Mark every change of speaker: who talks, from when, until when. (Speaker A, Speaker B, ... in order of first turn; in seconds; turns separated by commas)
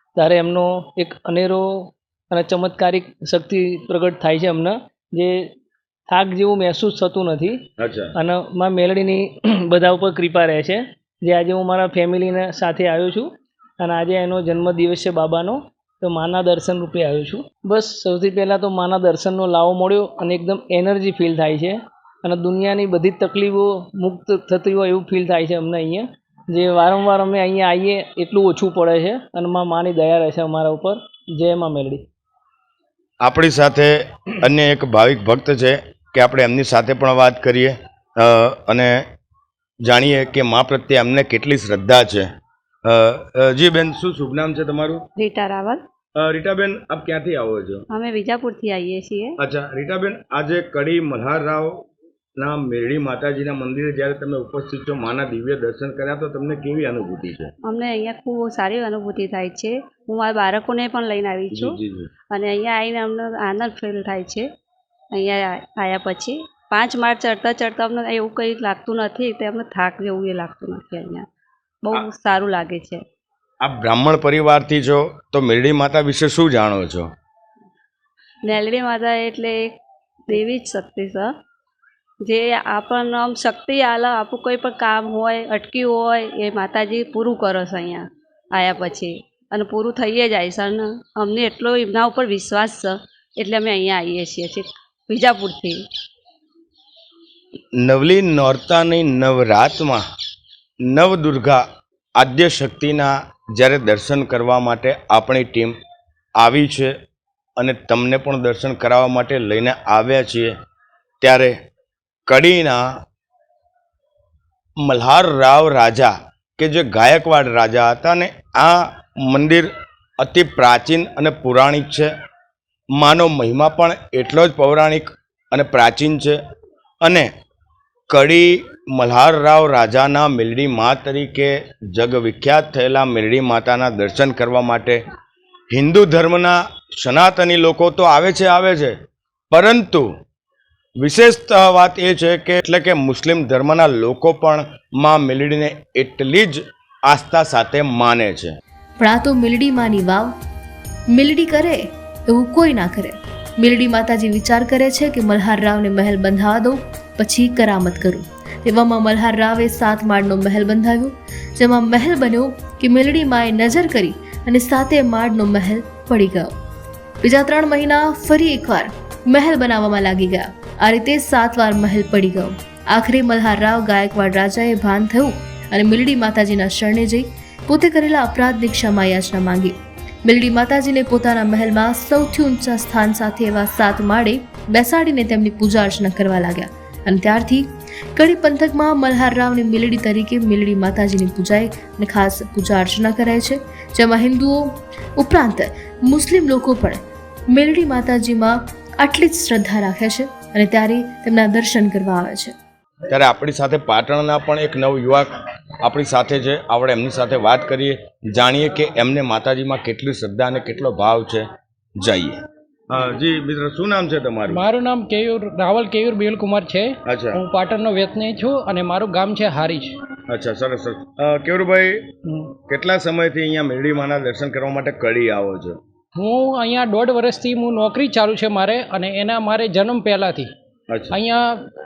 Speaker A: 0.2-5.5, Speaker A: 6.1-32.1, Speaker B: 7.8-8.1, Speaker B: 33.2-39.0, Speaker B: 39.9-42.3, Speaker B: 42.9-45.0, Speaker C: 45.2-45.8, Speaker B: 46.2-47.9, Speaker C: 47.9-49.3, Speaker B: 49.4-51.8, Speaker B: 52.4-57.5, Speaker C: 57.7-61.8, Speaker B: 61.5-62.1, Speaker C: 62.3-64.5, Speaker C: 65.1-71.3, Speaker C: 71.8-73.0, Speaker B: 73.6-77.1, Speaker C: 78.5-79.7, Speaker C: 80.3-81.3, Speaker C: 82.2-95.8, Speaker B: 97.8-100.0, Speaker B: 100.9-101.6, Speaker B: 102.2-105.8, Speaker B: 106.4-106.9, Speaker B: 107.6-110.5, Speaker B: 111.2-111.5, Speaker B: 112.3-112.8, Speaker B: 114.8-122.1, Speaker B: 123.0-126.4, Speaker B: 127.0-127.3, Speaker B: 128.1-135.0, Speaker B: 135.7-138.9, Speaker B: 139.5-140.1, Speaker B: 141.0-148.6, Speaker D: 149.0-150.3, Speaker D: 151.2-166.5, Speaker D: 167.2-179.7, Speaker D: 180.3-197.0, Speaker D: 197.5-202.5, Speaker B: 203.1-211.5, Speaker B: 212.0-214.6, Speaker E: 214.5-220.0, Speaker B: 217.1-217.4, Speaker B: 220.3-222.1, Speaker E: 222.3-222.5, Speaker B: 222.7-225.8, Speaker E: 226.2-230.5, Speaker B: 230.9-231.2, Speaker E: 231.1-231.6